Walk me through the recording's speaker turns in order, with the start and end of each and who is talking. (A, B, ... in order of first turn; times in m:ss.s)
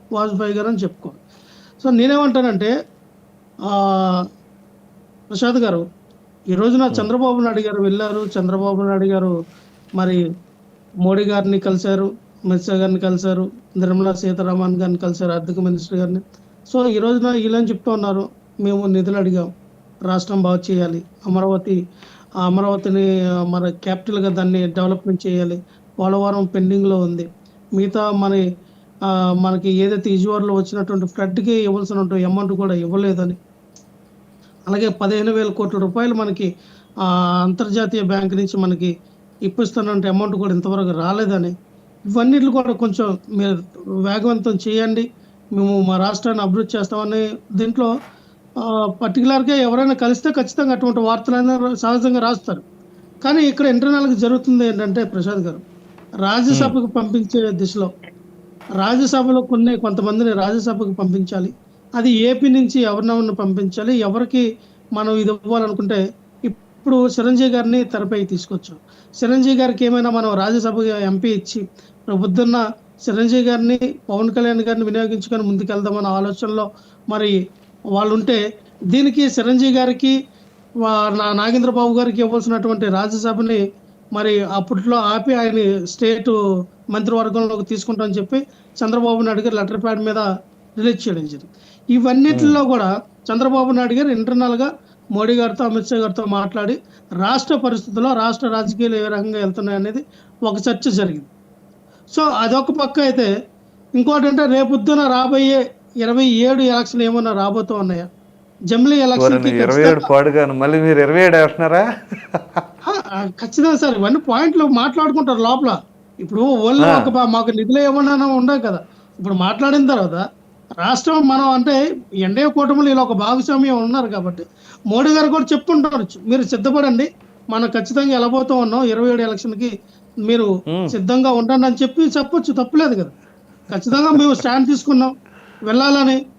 0:00.2-0:01.2 A
0:01.8-0:02.7 A
0:03.7-0:04.2 A
0:05.3-0:05.8 A
0:06.5-0:09.3 A
0:11.0-0:19.5 A
0:20.1-0:21.8 A
0:22.4-0:28.4 A
0:29.4-0:33.4 A
0:34.7-0:36.5 A
0:37.4-0:38.9 A
0:39.5-0:41.5 A
0:42.1-0:47.9 A
0:49.0-0:52.6 A
0:53.2-0:55.6 A
0:56.2-0:57.9 A
0:58.8-1:04.4 A
1:05.0-1:17.3 A
1:18.0-1:18.4 A
1:18.9-1:20.1 A
1:20.8-1:23.6 A
1:24.2-1:26.4 A
1:26.9-1:30.2 A
1:30.8-1:41.3 A
1:32.3-1:32.6 B
1:42.1-1:43.3 A
1:44.0-1:48.1 A
1:48.7-1:50.1 A
1:49.2-1:51.8 B
1:52.3-1:52.6 B
1:52.9-2:00.2 A
1:56.8-1:57.1 B
2:00.8-2:09.7 A
2:10.3-2:13.1 A
2:13.7-2:15.1 A
2:15.7-2:16.2 A